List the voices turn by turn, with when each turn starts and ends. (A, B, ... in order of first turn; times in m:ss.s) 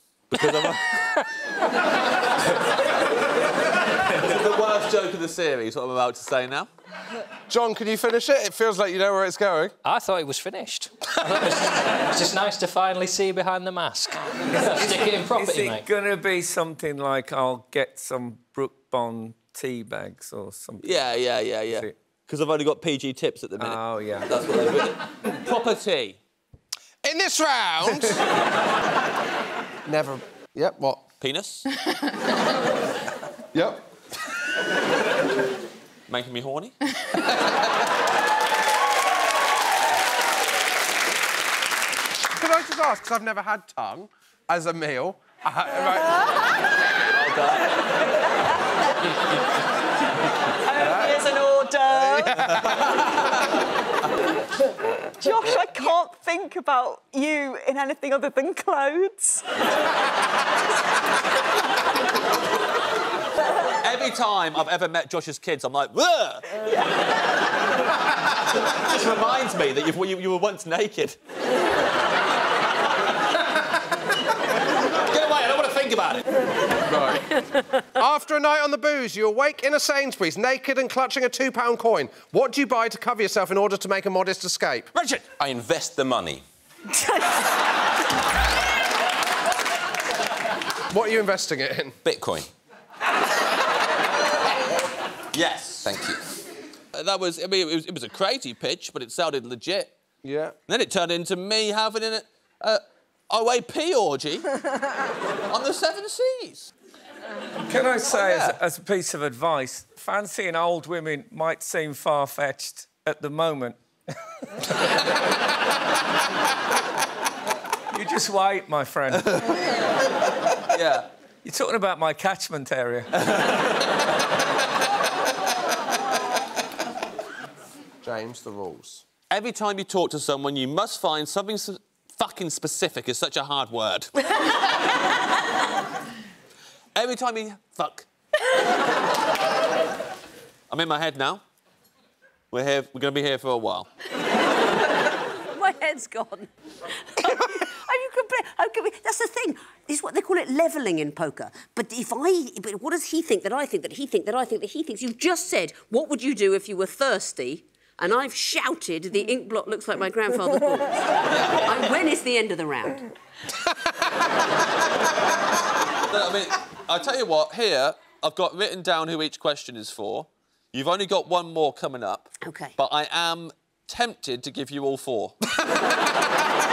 0:00.3-0:01.2 A
0:04.1-0:06.7 A
0:07.5-0:09.8 B
0:09.8-0:15.9 C
0:14.6-0:22.0 D
0:20.8-0:26.2 A
0:23.6-0:24.3 D
0:27.0-0:28.2 B
0:29.8-0:31.0 B
0:31.2-0:31.7 A
0:33.5-0:33.8 B
0:36.1-0:36.8 A
0:42.3-0:46.1 B
0:47.1-0:47.7 A
0:50.8-0:51.1 B
0:50.8-0:52.3 E
0:51.5-0:53.6 A
0:55.2-0:59.5 E
1:03.8-1:06.6 A
1:08.4-1:11.2 A
1:15.1-1:16.2 A
1:16.9-1:24.9 B
1:25.0-1:25.2 A
1:25.3-1:26.4 F
1:30.9-1:32.0 B
1:32.0-1:32.5 F
1:35.3-1:35.9 A
1:35.8-1:36.2 F
1:36.9-1:39.9 A
1:40.2-1:40.6 B
1:40.7-1:44.5 A
1:45.5-1:46.7 A
1:47.7-1:53.8 D
1:48.0-1:48.6 A
1:57.9-1:59.5 D
2:00.7-2:01.1 A
2:01.4-2:03.1 D
2:08.0-2:09.0 B
2:09.3-2:14.3 A
2:17.0-2:18.1 A
2:20.7-2:21.4 A
2:22.5-2:23.9 A
2:25.5-2:26.5 G
2:27.0-2:43.1 G
2:46.1-2:55.4 A
2:52.4-2:52.8 G